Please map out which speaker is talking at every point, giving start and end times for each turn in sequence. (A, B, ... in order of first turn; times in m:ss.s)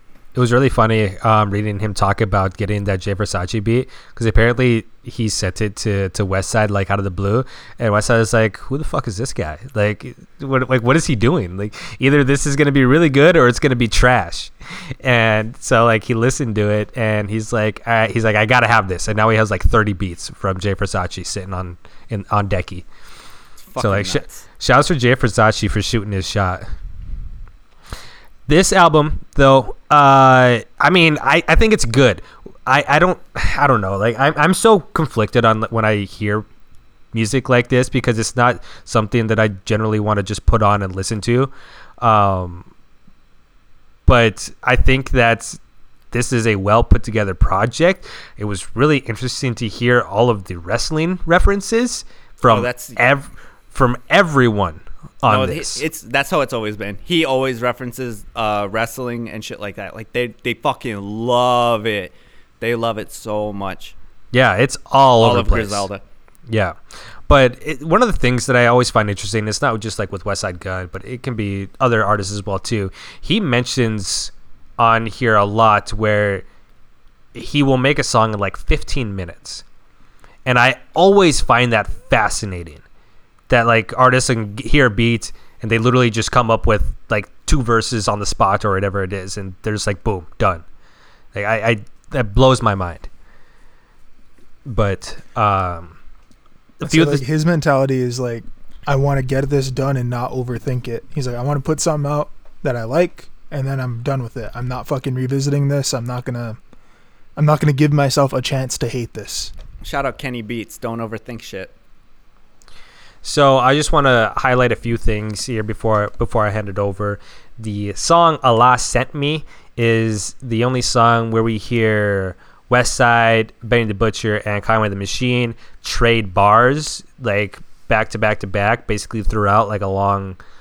0:00.4-0:22.8 A
0:23.7-0:24.4 B
0:23.8-0:26.6 A
0:28.5-0:36.4 A
0:37.1-0:42.7 A
0:44.1-0:45.6 A
0:46.1-0:55.8 A
0:52.5-0:53.0 B
0:55.3-1:04.0 B
1:04.3-1:05.9 A
1:05.2-1:06.0 B
1:06.5-1:06.8 A
1:07.3-1:16.4 A
1:17.4-1:19.6 A
1:20.5-1:22.8 A
1:23.5-1:30.6 A
1:31.3-1:33.1 A
1:34.6-1:36.0 A
1:36.8-1:46.6 C
1:36.8-1:37.2 A
1:47.4-1:49.5 C
1:49.8-1:51.7 B
1:53.2-2:10.4 A